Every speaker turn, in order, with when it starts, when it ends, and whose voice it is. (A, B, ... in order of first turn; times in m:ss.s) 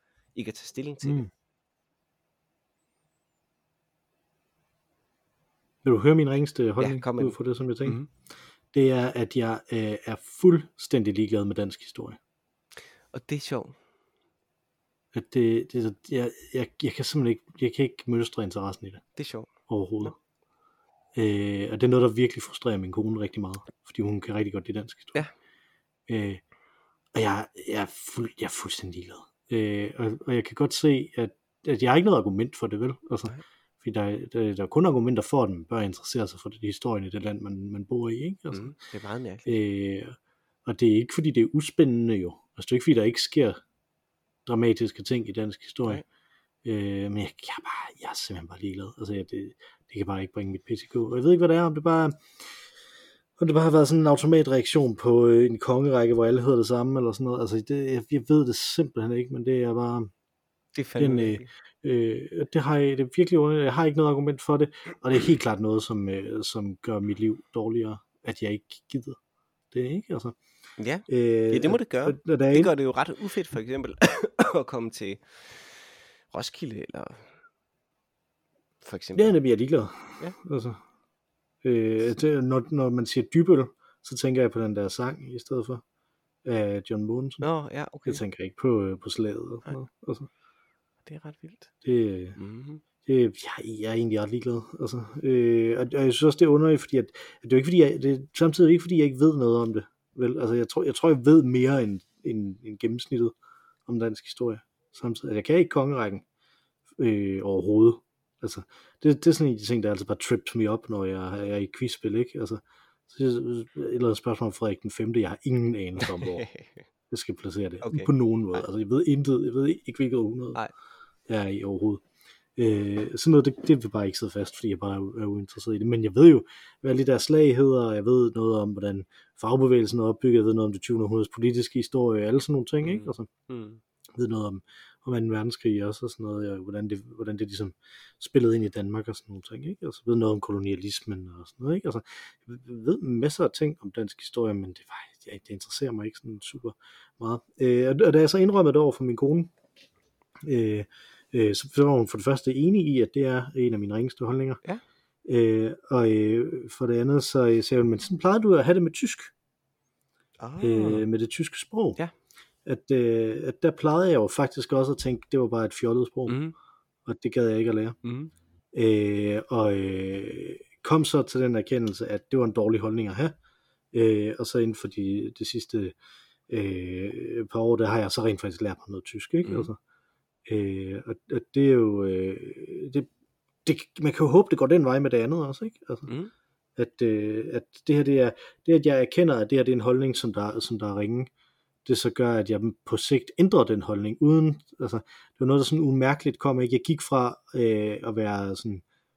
0:00.3-0:01.2 A
0:01.0-0:01.3 B
0:05.8-0:08.0 B
0:06.8-0:08.1 A
0:08.7-0:12.2 B
0:13.1-0:13.8 A
0:15.1-0:19.0 B
0:19.2-0:19.5 A
0:19.7-0:20.2 B
0:21.2-0:25.2 B
0:26.1-0:26.4 B
0:27.1-0:38.7 B
0:38.5-0:39.6 A
0:39.5-0:43.6 B
0:44.5-0:46.0 B
0:46.6-0:52.2 B
0:53.4-1:00.1 B
1:00.8-1:01.5 A
1:01.0-1:09.2 B
1:09.7-1:10.4 B
1:10.8-1:15.7 A
1:11.1-1:12.7 B
1:16.3-1:17.3 A
1:18.8-1:19.4 A
1:19.2-1:20.8 B
1:21.6-1:25.8 B
1:26.4-1:27.5 B
1:27.4-1:28.2 A
1:28.0-1:30.3 B
1:31.0-1:31.7 A
1:31.8-1:32.4 B
1:32.4-1:32.8 A
1:33.0-1:43.4 B
1:43.9-1:46.2 B
1:47.0-1:56.4 B
1:56.1-1:56.8 A
1:57.1-2:00.6 B
1:57.8-1:58.6 A
2:01.3-2:02.0 B
2:02.6-2:13.3 B
2:12.8-2:13.8 A
2:14.1-2:29.5 B
2:30.4-2:34.6 B
2:35.2-2:39.3 B
2:40.4-2:41.1 A
2:40.6-2:42.0 B
2:42.6-2:46.4 B
2:46.3-2:46.5 A
2:47.0-2:48.0 B
2:48.0-2:48.3 A
2:48.7-2:53.4 B
2:53.9-2:56.0 B
2:56.5-2:59.8 B
3:00.5-3:03.1 B
3:03.6-3:06.1 B
3:06.8-3:11.3 B
3:11.8-3:18.8 B